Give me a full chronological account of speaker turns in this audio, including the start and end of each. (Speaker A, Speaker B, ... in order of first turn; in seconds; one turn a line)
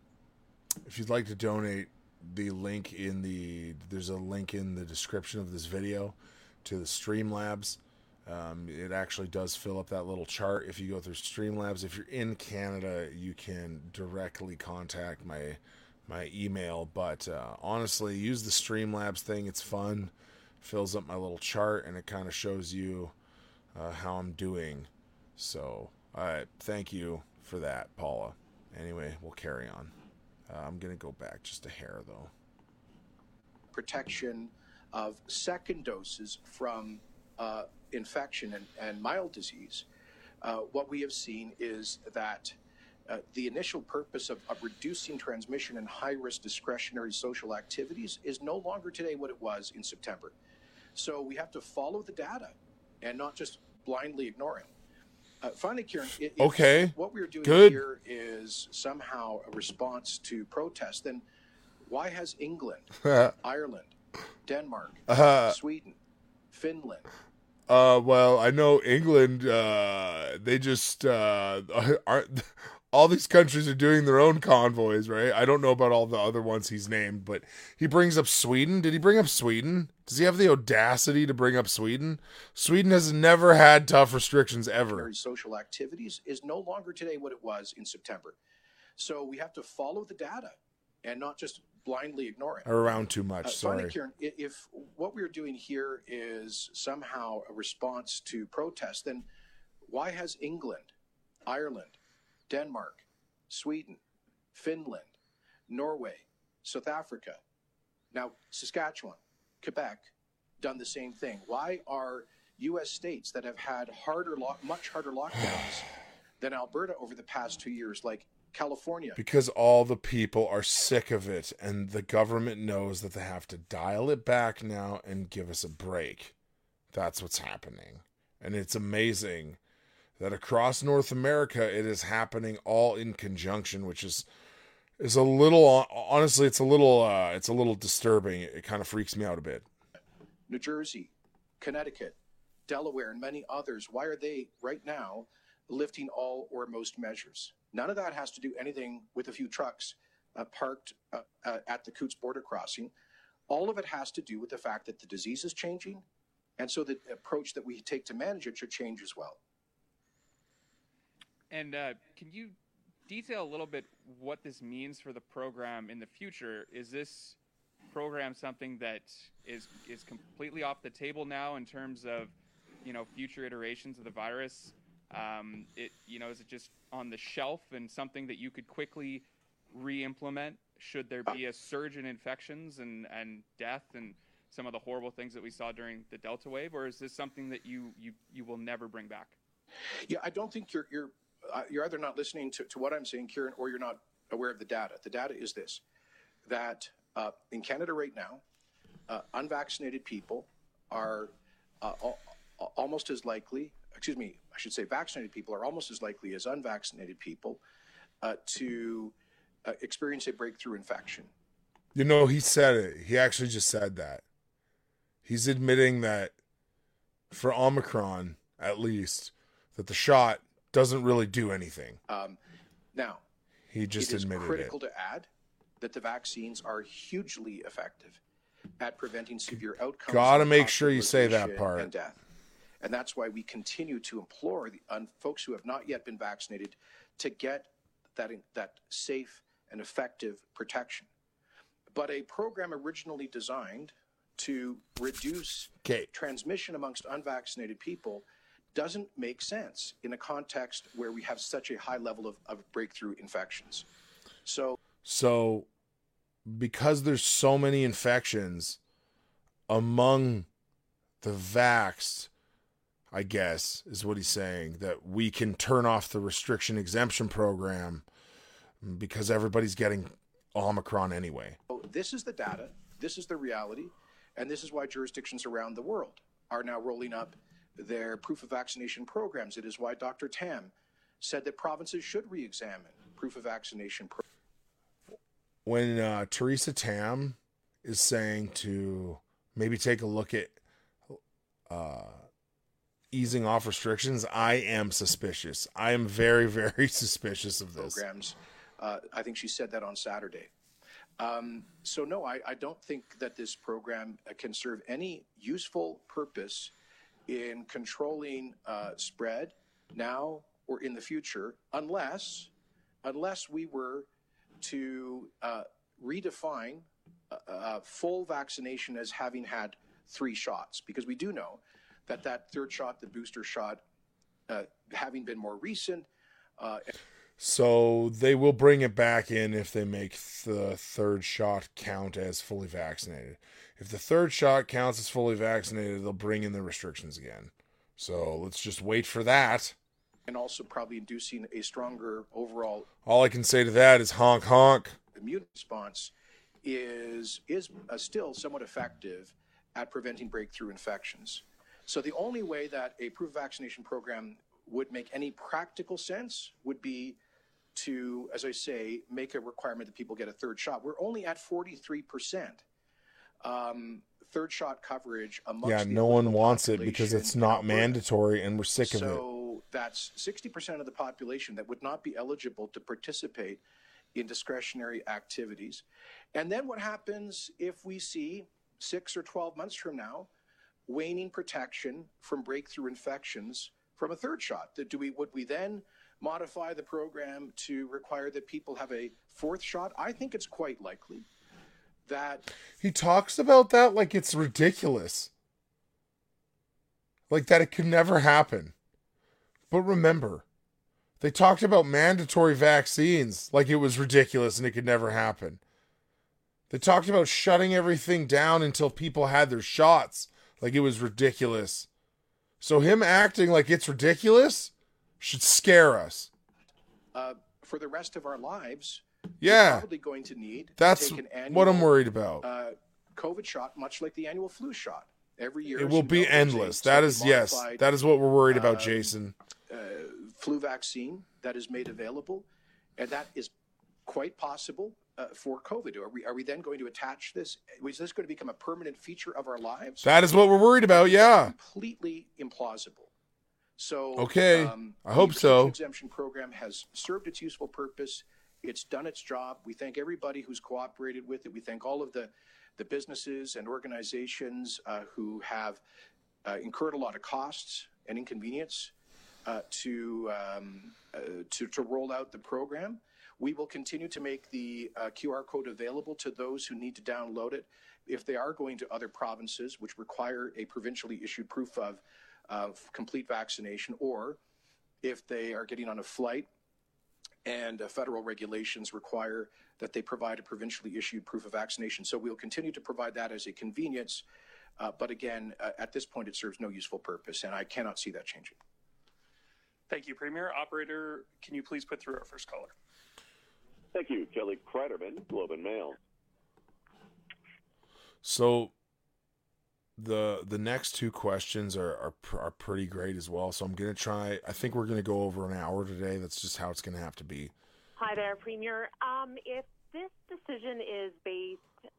Speaker A: 0.8-23.1
Speaker A: 23.7-29.9
Speaker A: 30.5-32.3
Speaker B: 33.7-39.9
Speaker B: 40.4-42.5
Speaker B: 43.1-50.3
Speaker B: 50.9-54.7
Speaker B: 55.4-61.2
Speaker A: 56.4-57.8
Speaker B: 61.8-66.0
Speaker A: 65.1-65.5
Speaker B: 66.5-67.1
Speaker A: 67.7-85.1
Speaker B: 84.9-88.4
Speaker B: 89.0-92.7
Speaker A: 92.7-93.9
Speaker B: 93.4-99.3
Speaker B: 99.8-100.9
Speaker B: 101.5-104.0
Speaker B: 104.5-105.2
Speaker B: 105.7-107.4
Speaker B: 108.1-115.9
Speaker B: 116.4-119.2
Speaker A: 119.2-126.3
Speaker A: 126.9-129.6
Speaker A: 130.2-134.3
Speaker A: 135.0-139.7
Speaker B: 140.5-152.9
Speaker B: 153.5-156.0
Speaker B: 156.6-159.4
Speaker C: 161.5-162.5
Speaker C: 163.1-167.4
Speaker C: 167.9-189.4
Speaker B: 190.1-195.8
Speaker B: 196.4-198.4
Speaker B: 199.1-207.6
Speaker B: 208.2-211.3
Speaker A: 211.9-214.2
Speaker A: 215.2-216.3
Speaker A: 217.3-222.0
Speaker B: 222.1-222.4
Speaker B: 222.9-223.2
Speaker A: 223.7-224.7
Speaker B: 224.0-225.3
Speaker B: 225.8-228.2
Speaker B: 228.8-232.2
Speaker A: 230.1-231.9
Speaker B: 232.8-241.1
Speaker B: 241.9-253.8
Speaker A: 245.8-246.1
Speaker B: 254.4-254.8
Speaker A: 255.0-255.7
Speaker A: 256.4-258.8
Speaker A: 259.7-260.5
Speaker A: 261.2-262.3
Speaker A: 263.1-268.0
Speaker A: 268.8-271.6
Speaker B: 271.7-284.2
Speaker A: 285.6-290.6
Speaker A: 291.1-292.2
Speaker A: 293.1-298.0
Speaker B: 297.8-300.5
Speaker B: 301.2-306.7
Speaker B: 307.3-312.5
Speaker B: 313.0-314.1
Speaker B: 314.6-323.8
Speaker B: 324.5-326.9
Speaker A: 327.4-339.7
Speaker B: 340.3-342.9
Speaker A: 343.0-345.0
Speaker B: 345.1-357.2
Speaker B: 357.7-362.6
Speaker B: 363.4-368.0
Speaker A: 365.6-369.2
Speaker B: 368.8-373.6
Speaker B: 374.1-375.8
Speaker B: 376.3-380.3
Speaker B: 380.9-391.3
Speaker B: 392.1-392.5
Speaker A: 392.8-395.3
Speaker A: 397.3-398.7
Speaker A: 399.7-400.4
Speaker A: 401.2-405.6
Speaker A: 406.7-411.9
Speaker A: 412.6-416.3
Speaker B: 417.1-427.9
Speaker A: 419.4-419.9
Speaker A: 420.8-422.4
Speaker A: 425.7-429.3
Speaker B: 428.5-429.1
Speaker B: 429.7-432.4
Speaker B: 433.0-433.5
Speaker B: 434.1-440.1
Speaker A: 440.0-441.5
Speaker B: 440.9-443.1
Speaker B: 443.8-455.8
Speaker A: 444.1-445.8
Speaker B: 456.4-458.9
Speaker B: 459.4-474.4
Speaker B: 475.0-476.5
Speaker B: 477.4-484.2
Speaker B: 484.8-488.6
Speaker D: 489.9-492.7
Speaker E: 493.9-496.0
Speaker A: 498.2-498.7
Speaker A: 500.0-507.5
Speaker F: 508.0-511.7